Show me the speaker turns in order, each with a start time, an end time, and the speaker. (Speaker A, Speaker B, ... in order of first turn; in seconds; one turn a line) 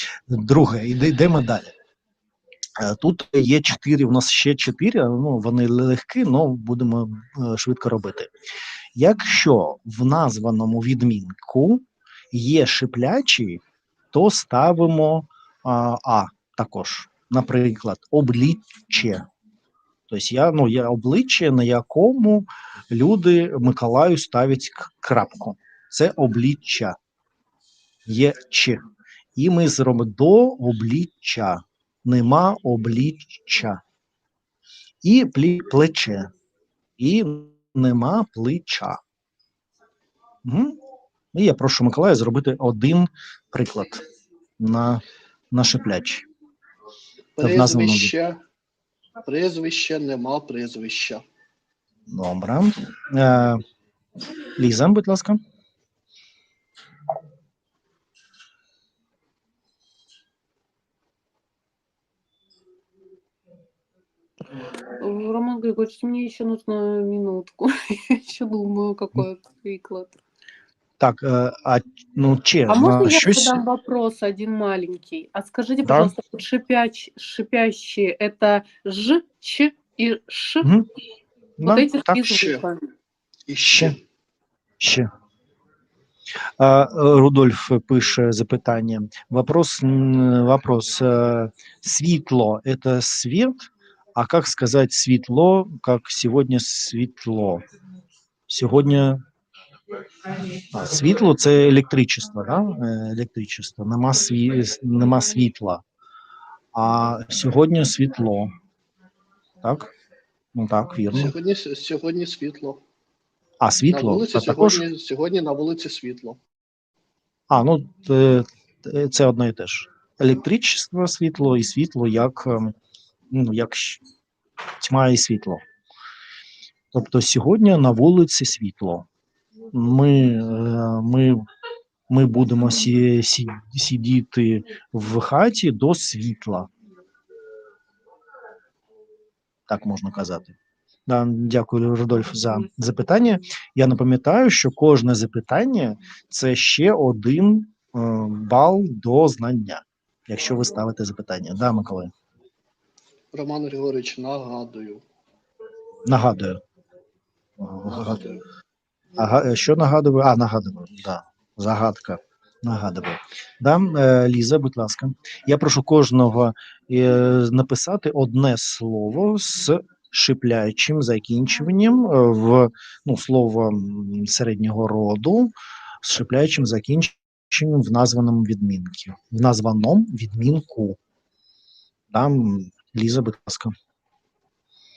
Speaker A: 0.3-1.7
Speaker A: 2.8-8.3
Speaker A: 9.0-13.6
Speaker A: 14.1-19.2
Speaker A: 20.1-27.0
Speaker A: 28.1-28.8
Speaker A: 29.4-33.8
Speaker A: 35.0-36.3
Speaker A: 37.0-39.0
Speaker A: 40.4-40.8
Speaker A: 41.3-44.0
Speaker A: 44.6-46.2
Speaker B: 47.4-48.4
Speaker A: 47.4-48.1
Speaker B: 49.2-51.2
Speaker A: 52.1-53.6
Speaker A: 54.6-55.4
Speaker C: 65.0-70.2
Speaker A: 71.0-73.6
Speaker C: 72.7-80.7
Speaker A: 75.8-76.1
Speaker A: 81.6-82.4
Speaker C: 81.6-82.8
Speaker B: 82.3-82.7
Speaker B: 83.5-84.0
Speaker A: 83.6-84.0
Speaker A: 84.8-85.1
Speaker A: 86.6-97.6
Speaker A: 98.5-99.2
Speaker A: 100.7-105.8
Speaker A: 106.7-108.5
Speaker A: 109.6-109.9
Speaker A: 110.5-111.3
Speaker B: 111.1-112.8
Speaker A: 113.6-114.8
Speaker B: 113.9-116.4
Speaker A: 117.5-122.8
Speaker A: 123.3-124.0
Speaker A: 124.8-125.6
Speaker A: 126.9-129.1
Speaker A: 129.7-131.4
Speaker A: 132.1-136.7
Speaker A: 139.7-140.5
Speaker A: 141.1-152.1
Speaker B: 153.3-155.0
Speaker A: 156.1-156.6
Speaker A: 157.6-158.3
Speaker B: 157.9-158.4
Speaker A: 159.2-175.5
Speaker A: 176.0-181.0
Speaker A: 182.1-183.7